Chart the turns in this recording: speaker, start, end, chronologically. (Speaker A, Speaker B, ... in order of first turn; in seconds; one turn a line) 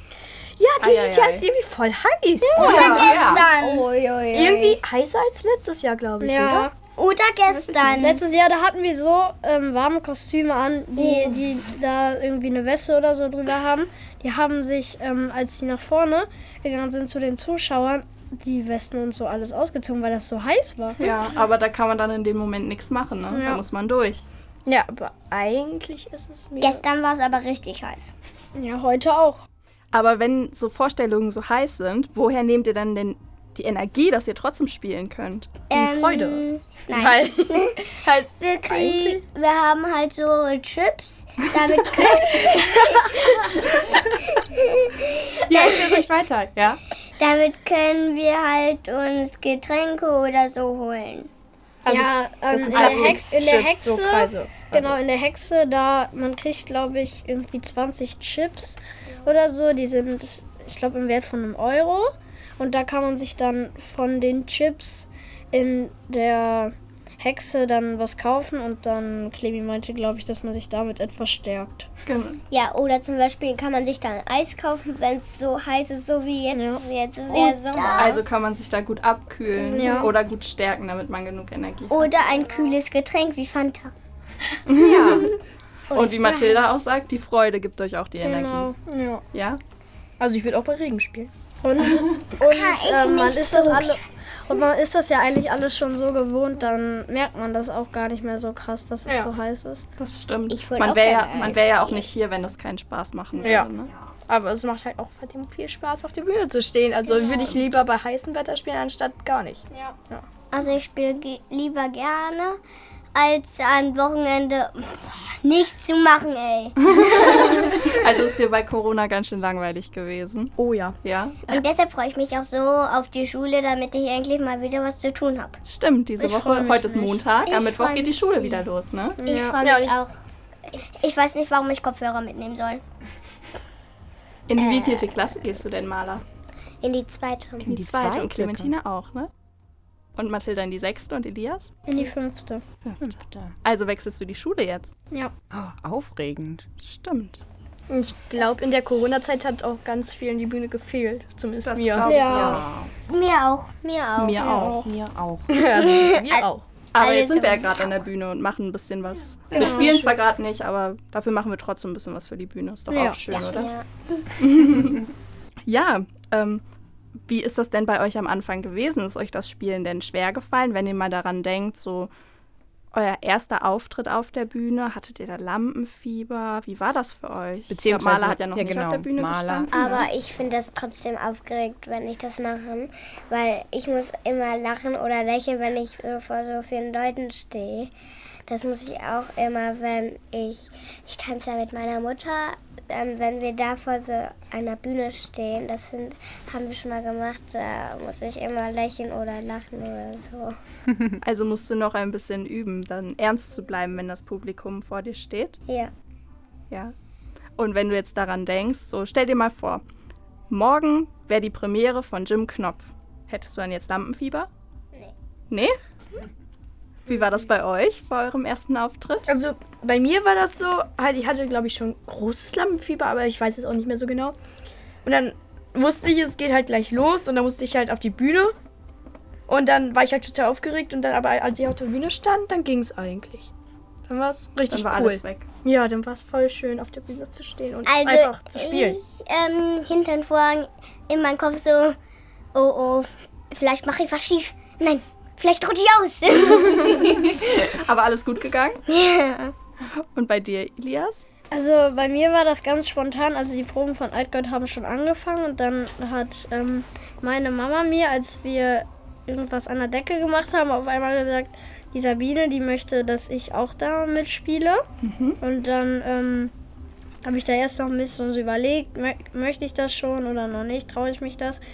Speaker A: 0.6-6.7
Speaker B: 0.8-1.5
Speaker C: 2.4-4.8
Speaker D: 2.6-3.5
Speaker E: 6.2-6.7
Speaker C: 7.0-8.2
Speaker B: 7.5-8.1
Speaker E: 7.9-21.0
Speaker C: 11.0-11.3
Speaker B: 21.0-24.2
Speaker E: 23.3-23.6
Speaker A: 24.7-26.8
Speaker C: 26.6-28.1
Speaker E: 28.6-29.4
Speaker B: 29.9-35.6
Speaker C: 35.7-46.1
Speaker A: 35.7-39.2
Speaker D: 45.5-46.8
Speaker C: 47.2-51.3
Speaker A: 51.9-55.0
Speaker E: 51.9-71.9
Speaker B: 52.7-53.2
Speaker B: 72.1-72.4
Speaker C: 72.5-78.2
Speaker E: 76.5-76.8
Speaker A: 77.3-78.0
Speaker B: 78.0-82.1
Speaker C: 79.6-80.1
Speaker E: 79.7-80.1
Speaker C: 81.9-83.9
Speaker B: 84.7-85.3
Speaker D: 84.7-85.3
Speaker C: 85.9-86.9
Speaker B: 85.9-88.7
Speaker E: 88.2-89.2
Speaker B: 89.3-89.6
Speaker A: 90.2-91.3
Speaker E: 91.6-99.9
Speaker C: 92.4-94.0
Speaker A: 99.1-99.3
Speaker B: 100.0-103.9
Speaker C: 100.5-102.1
Speaker A: 103.4-103.7
Speaker A: 104.3-110.2
Speaker B: 107.2-107.8
Speaker C: 110.5-112.6
Speaker C: 113.2-118.1
Speaker B: 116.9-121.4
Speaker A: 120.6-121.0
Speaker C: 121.5-125.6
Speaker B: 125.7-129.2
Speaker E: 126.2-127.2
Speaker C: 127.5-128.7
Speaker E: 129.2-129.6
Speaker C: 129.2-130.1
Speaker A: 129.6-130.0
Speaker C: 130.7-132.8
Speaker B: 134.5-136.2
Speaker C: 134.6-135.2
Speaker C: 136.8-137.7
Speaker B: 137.7-139.3
Speaker D: 137.7-138.7
Speaker B: 140.2-141.7
Speaker E: 141.9-142.6
Speaker B: 142.8-143.1
Speaker D: 143.0-143.5
Speaker B: 143.6-144.9
Speaker D: 145.5-146.7
Speaker B: 146.8-147.4
Speaker A: 147.9-152.2
Speaker B: 151.6-152.7
Speaker E: 152.0-152.7
Speaker D: 152.2-152.9
Speaker C: 153.1-154.4
Speaker B: 154.2-154.8
Speaker E: 154.4-154.9
Speaker D: 154.8-155.6
Speaker A: 155.5-156.7
Speaker C: 155.7-156.5
Speaker B: 156.9-163.7
Speaker C: 157.0-158.1
Speaker C: 159.5-160.0
Speaker A: 159.6-160.1
Speaker E: 159.6-160.0
Speaker E: 162.9-163.2
Speaker C: 163.3-164.3
Speaker B: 164.4-165.0
Speaker B: 165.7-166.6
Speaker B: 167.2-172.1
Speaker B: 172.9-180.1
Speaker D: 177.7-179.7
Speaker C: 179.7-187.9
Speaker C: 188.5-200.6
Speaker B: 201.2-205.6
Speaker B: 207.6-209.8
Speaker B: 210.5-214.5
Speaker B: 215.5-215.8
Speaker B: 217.1-219.3
Speaker A: 219.3-224.3
Speaker A: 225.0-228.6
Speaker A: 229.5-233.5
Speaker A: 234.1-239.0
Speaker B: 234.7-235.5
Speaker C: 237.8-242.0
Speaker C: 242.5-247.4
Speaker B: 246.8-248.8
Speaker C: 248.9-249.5
Speaker B: 249.9-251.2
Speaker E: 251.5-264.8
Speaker B: 265.0-265.4
Speaker E: 265.4-266.5
Speaker E: 267.2-271.6